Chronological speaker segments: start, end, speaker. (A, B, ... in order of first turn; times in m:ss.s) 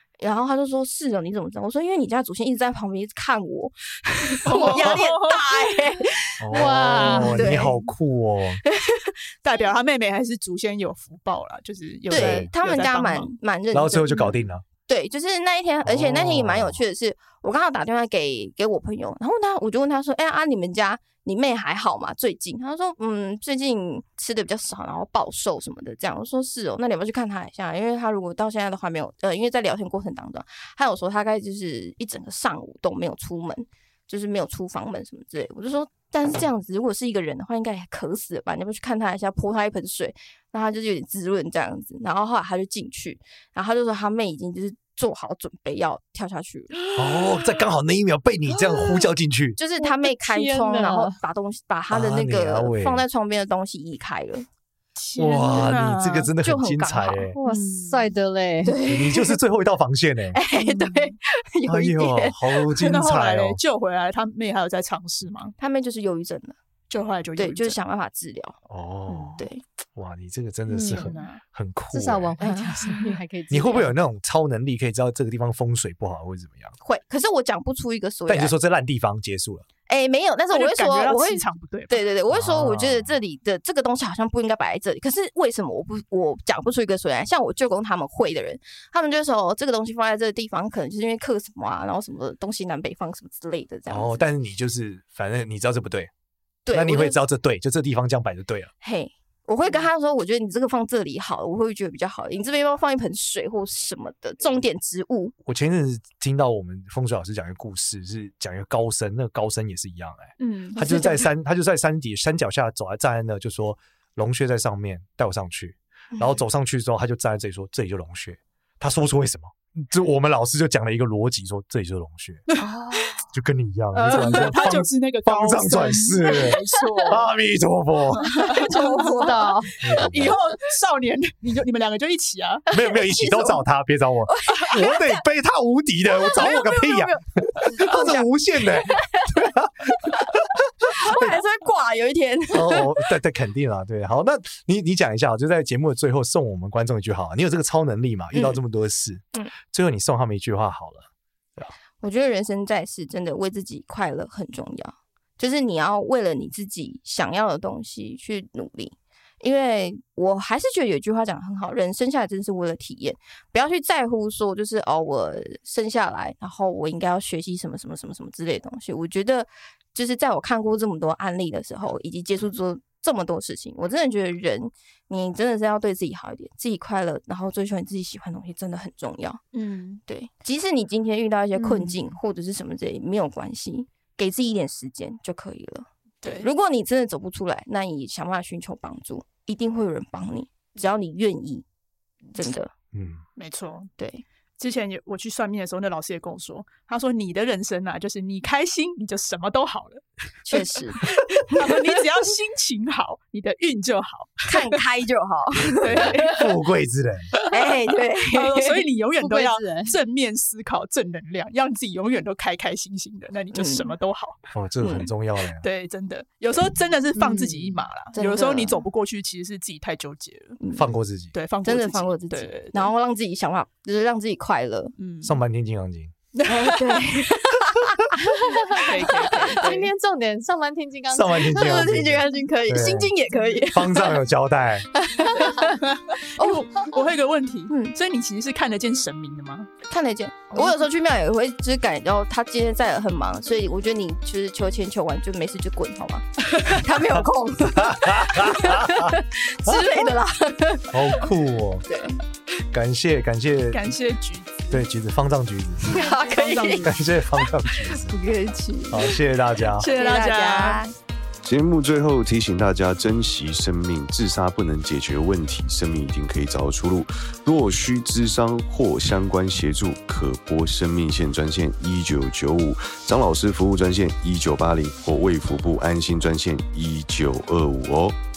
0:00.2-0:07.8 A
0:04.5-0:05.0 B
0:04.5-0:06.0 C
0:06.4-0:08.6 B
0:06.5-0:07.7 D
0:08.6-0:09.1 A
0:09.4-0:13.4 C
0:12.1-0:46.8 A
0:12.1-0:12.5 B
0:13.7-0:14.6 B
0:15.8-0:16.8 B
0:47.0-0:49.6 B
0:49.6-0:54.5 A
0:49.8-0:51.2 D
0:51.9-0:53.0 B
0:55.0-0:56.3 C
0:55.2-0:57.4 B
0:55.5-0:57.4 A
0:57.4-0:58.8 D
0:57.4-0:58.1 C
0:58.6-0:59.4 A
0:58.8-1:00.4 B
1:00.3-1:02.4 A
1:00.7-1:01.0 C
1:01.7-1:03.6 B
1:02.8-1:05.5 C
1:05.6-1:06.6 A
1:06.9-1:07.8 C
1:07.4-1:08.6 A
1:08.7-1:12.4 B
1:09.4-1:09.6 A
1:10.7-1:11.2 D
1:11.0-1:11.4 C
1:11.9-1:13.9 D
1:12.4-1:13.2 A
1:13.5-1:16.8 B
1:16.8-1:18.6 A
1:18.3-1:19.7 B
1:19.9-1:34.3 A
1:20.5-1:22.0 C
1:22.3-1:23.2 B
1:33.9-1:36.1 B
1:36.7-1:37.2 A
1:36.7-1:38.7 B
1:38.8-1:45.3 A
1:45.4-2:02.4 B
1:50.4-1:51.2 C
1:50.8-1:51.2 A
2:02.6-2:03.2 D
2:03.3-2:08.4 B
2:04.0-2:07.3 C
2:08.2-2:12.7 C
2:08.5-2:09.7 D
2:08.6-2:09.6 A
2:09.8-2:10.4 B
2:12.7-2:21.4 B
2:12.8-2:13.6 A
2:14.4-2:15.2 A
2:16.2-2:19.3 A
2:20.1-2:23.0 A
2:22.5-2:31.7 B
2:28.3-2:28.6 A
2:32.0-2:59.4 A
2:59.5-3:00.0 C
3:00.1-3:11.6 A
3:01.6-3:02.1 C
3:06.2-3:06.5 C
3:12.4-3:12.7 A
3:12.9-3:13.2 B
3:13.4-3:13.9 C
3:14.0-3:14.2 A
3:14.6-3:24.8 C
3:20.4-3:22.0 A
3:24.5-3:26.2 A
3:25.8-3:26.6 C
3:25.9-3:27.3 B
3:27.3-3:27.7 C
3:27.5-3:28.8 A
3:28.2-3:34.4 C
3:29.2-3:30.0 D
3:33.5-3:33.9 A
3:34.5-3:35.6 B
3:34.8-3:35.1 A
3:35.6-3:40.6 C
3:37.2-3:37.8 D
3:38.1-3:38.8 A
3:40.6-3:40.9 A
3:40.8-3:41.3 B
3:41.3-3:42.9 C
3:41.6-3:45.0 A
3:45.0-3:45.4 C
3:45.2-3:46.1 B
3:46.3-3:47.0 C
3:46.4-3:49.9 A
3:48.7-3:49.7 C
3:49.3-3:51.8 D
3:51.1-3:54.9 B
3:51.5-3:54.2 A
3:55.0-3:57.0 A
3:55.6-3:59.7 C
3:57.7-3:57.9 A
3:59.9-4:11.3 A
4:07.1-4:09.9 B
4:10.9-4:11.8 B
4:11.9-4:12.2 A
4:12.7-4:13.9 B
4:13.7-4:14.8 C
4:14.7-4:16.0 B
4:15.9-4:16.9 A
4:15.9-4:17.0 C
4:16.8-4:18.2 B
4:17.9-4:19.2 A
4:18.9-4:19.9 B
4:19.8-4:20.8 C
4:19.8-4:20.9 A
4:21.4-4:38.2 E